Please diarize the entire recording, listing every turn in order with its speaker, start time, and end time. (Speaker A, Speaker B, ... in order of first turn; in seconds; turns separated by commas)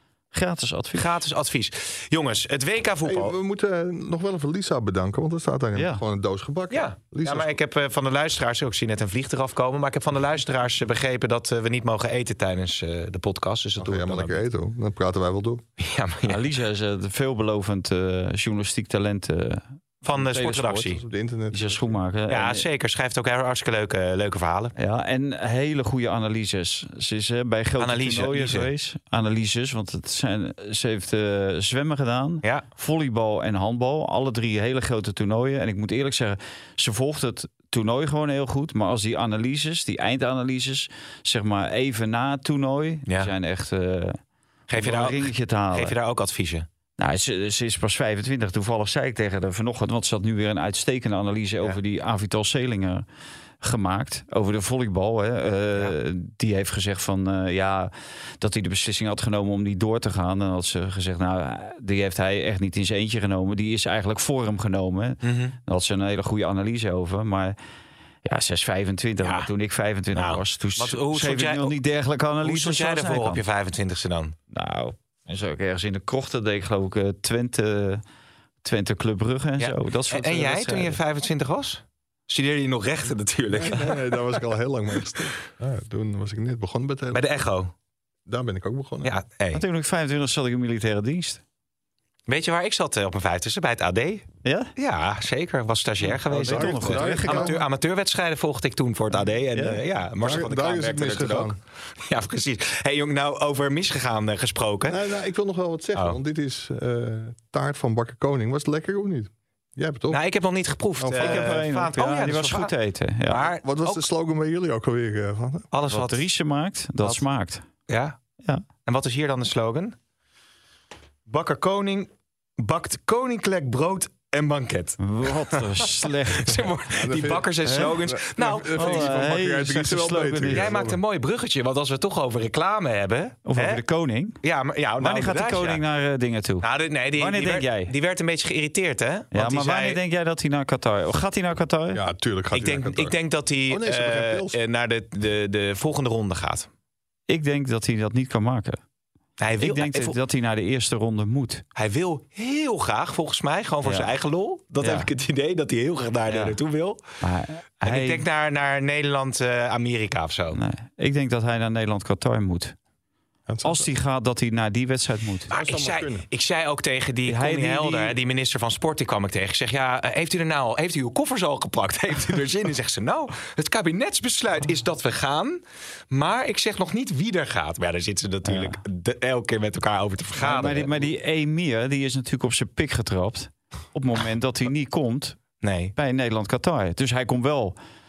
Speaker A: 0.3-1.1, Speaker B: 0.9-3.4, Speaker C: 3.0-7.6, Speaker A: 5.7-6.0, Speaker B: 6.7-14.4, Speaker C: 13.8-15.6, Speaker B: 15.8-16.5, Speaker A: 16.2-20.9, Speaker B: 20.0-21.0, Speaker C: 20.9-22.0, Speaker A: 21.5-22.6, Speaker B: 22.3-24.7, Speaker A: 24.8-44.2, Speaker B: 27.8-28.7, Speaker B: 43.1-43.3, Speaker B: 44.7-46.6, Speaker A: 44.7-45.9, Speaker A: 47.0-53.0, Speaker A: 53.6-67.5, Speaker B: 65.2-65.5, Speaker A: 68.2-73.4, Speaker B: 69.2-69.5, Speaker B: 70.1-71.8, Speaker B: 72.4-74.3, Speaker A: 74.5-78.0, Speaker A: 78.6-81.0, Speaker B: 79.6-84.4, Speaker C: 83.5-87.2, Speaker B: 87.1-87.7, Speaker C: 88.2-89.2, Speaker B: 89.0-89.6, Speaker A: 89.5-91.4, Speaker B: 92.3-105.0, Speaker A: 94.4-94.7, Speaker A: 96.1-97.6, Speaker C: 96.3-97.6, Speaker A: 99.5-99.8, Speaker C: 100.2-101.6, Speaker C: 104.9-110.2, Speaker B: 110.1-112.7, Speaker C: 111.0-111.6, Speaker A: 111.1-113.5, Speaker B: 113.3-114.0, Speaker C: 113.6-115.7, Speaker B: 115.7-116.2, Speaker A: 115.9-117.7, Speaker B: 117.9-118.2, Speaker B: 118.8-119.9, Speaker B: 121.3-129.1, Speaker A: 125.0-126.7, Speaker C: 126.9-131.0, Speaker A: 127.6-127.9, Speaker A: 128.7-130.7, Speaker B: 130.5-133.8, Speaker A: 133.4-134.4, Speaker B: 134.4-135.8, Speaker A: 135.0-137.9, Speaker B: 136.6-140.0, Speaker A: 139.3-142.0, Speaker C: 141.9-143.2, Speaker B: 142.5-146.7, Speaker C: 143.7-144.6, Speaker A: 147.3-148.8, Speaker B: 149.4-150.2, Speaker A: 149.6-151.6, Speaker B: 151.8-157.0, Speaker A: 153.8-154.1, Speaker A: 154.8-155.1, Speaker A: 156.3-156.6, Speaker A: 157.2-158.2, Speaker B: 157.8-160.6, Speaker A: 160.5-162.7, Speaker C: 163.5-163.9, Speaker A: 163.6-165.5, Speaker C: 165.5-166.2, Speaker B: 165.5-181.1, Speaker A: 167.2-168.2, Speaker A: 178.4-178.8, Speaker A: 180.4-185.4, Speaker B: 185.6-185.9, Speaker A: 185.9-187.8